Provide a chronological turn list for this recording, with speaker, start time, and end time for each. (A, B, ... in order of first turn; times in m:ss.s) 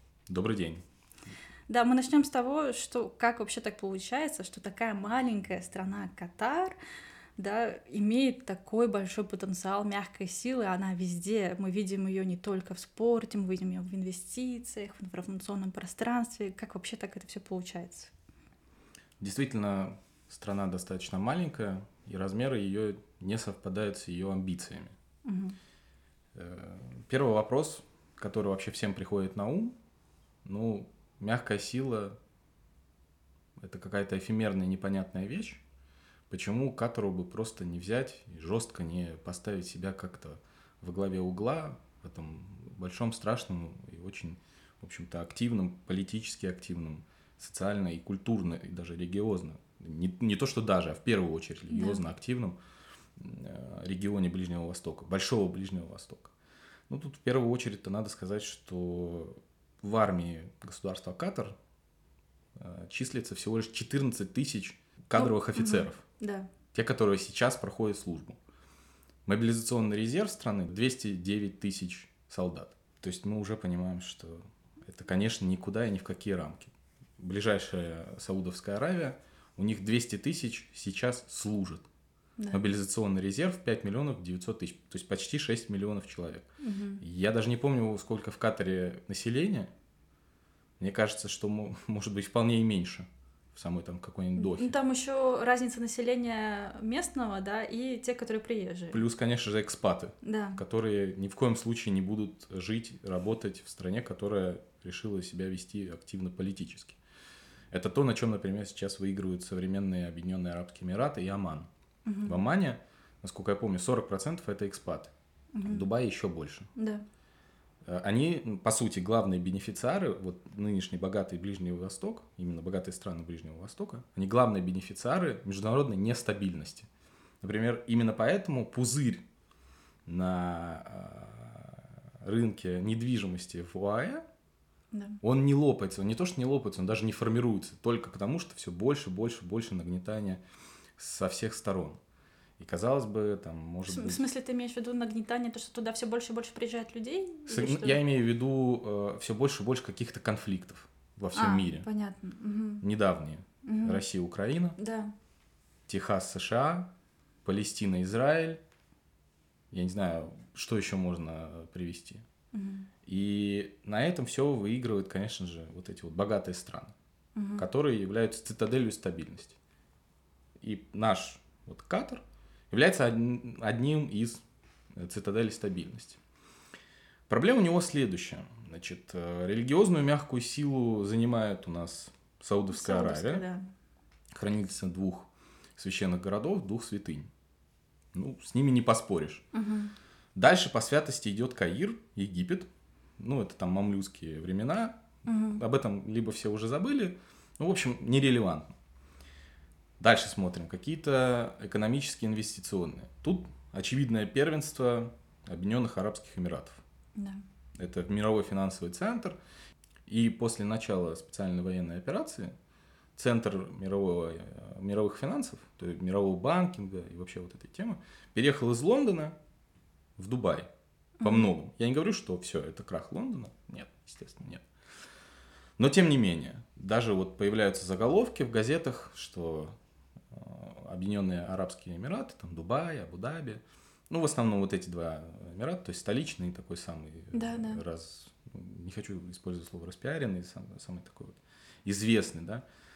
0:00.3-0:00.8 A
0:01.7-0:06.8 B
0:07.4-0:18.1 B
0:19.2-0:25.0 A
0:25.2-0:25.6 B
0:26.4-0:29.8 A
0:30.4-0:32.2 A
0:33.6-0:35.6 A
0:36.3-0:52.6 A
0:51.7-0:52.0 B
0:53.2-0:56.3 A
0:56.9-1:01.6 A
1:02.6-1:06.0 A
1:05.2-1:06.5 B
1:06.7-1:08.4 A
1:09.3-1:21.9 A
1:22.5-1:26.5 A
1:26.6-1:27.0 B
1:27.0-1:29.7 A
1:30.8-1:34.8 A
1:34.4-1:39.0 B
1:38.9-1:47.0 A
1:40.2-1:40.6 B
1:47.7-1:51.7 A
1:52.0-1:52.4 B
1:52.2-1:55.1 A
1:55.5-1:55.8 B
1:55.6-1:56.7 A
1:56.8-1:57.0 B
1:57.9-2:06.9 A
2:07.4-2:09.2 A
2:10.1-2:14.2 A
2:14.9-2:15.2 B
2:15.2-2:20.4 A
2:21.0-2:22.0 A
2:22.6-2:24.3 A
2:23.9-2:28.0 B
2:27.5-2:31.9 A
2:31.3-2:32.8 B
2:32.8-2:34.8 A
2:33.6-2:34.0 B
2:34.8-2:35.1 B
2:35.9-2:36.9 A
2:37.4-2:38.6 A
2:39.7-2:42.2 A
2:42.5-2:42.9 B
2:43.1-2:46.9 A
2:47.4-2:47.6 B
2:47.6-2:49.6 A
2:50.6-2:54.4 A
2:55.0-2:56.2 A
2:57.3-3:03.4 A
3:02.7-3:03.7 B
3:04.4-3:07.3 A
3:08.1-3:09.4 A
3:09.5-3:09.9 B
3:10.4-3:12.7 A
3:13.2-3:18.8 A
3:15.2-3:15.6 B
3:20.0-3:26.8 A
3:27.2-3:27.4 B
3:27.8-3:29.4 A
3:30.1-3:32.5 A
3:33.2-3:39.4 A
3:40.2-3:40.7 A
3:41.2-3:41.5 B
3:41.2-3:44.6 A
3:45.8-3:49.8 A
3:50.3-4:02.6 A
3:57.3-3:57.8 B